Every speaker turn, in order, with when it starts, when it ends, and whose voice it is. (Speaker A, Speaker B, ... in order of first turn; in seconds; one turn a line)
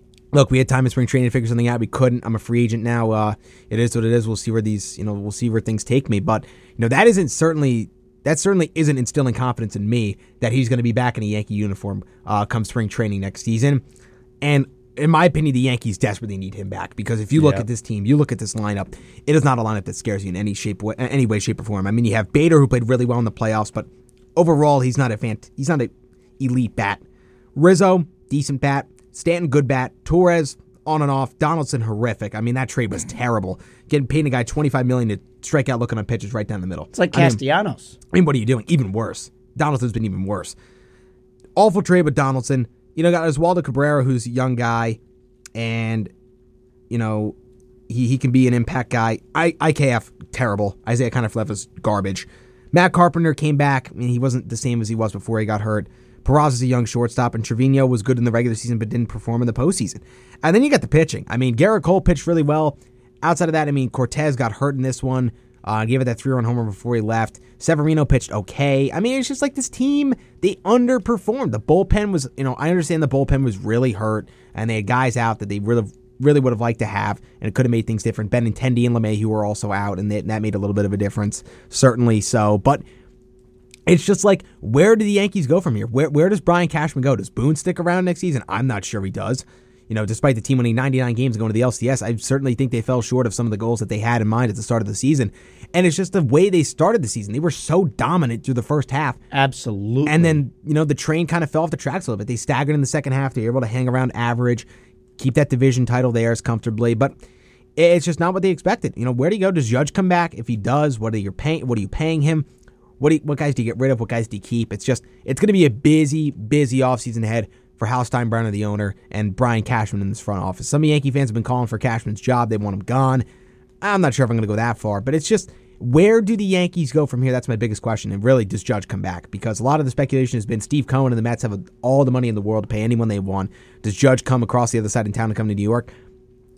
Speaker A: 0.3-13.8
Speaker A: 14.4-27.0
Speaker B: 17.4-17.6
Speaker A: 27.6-37.4
Speaker B: 36.9-38.0
Speaker A: 38.1-40.5
Speaker A: 41.5-45.0
Speaker A: 45.5-46.1
Speaker A: 46.9-47.3
Speaker A: 47.9-82.8
Speaker A: 83.9-99.2
Speaker B: 99.3-100.4
Speaker A: 100.0-104.7
Speaker A: 105.2-107.1
Speaker A: 107.8-112.5
Speaker A: 113.0-123.2
Speaker A: 123.8-135.9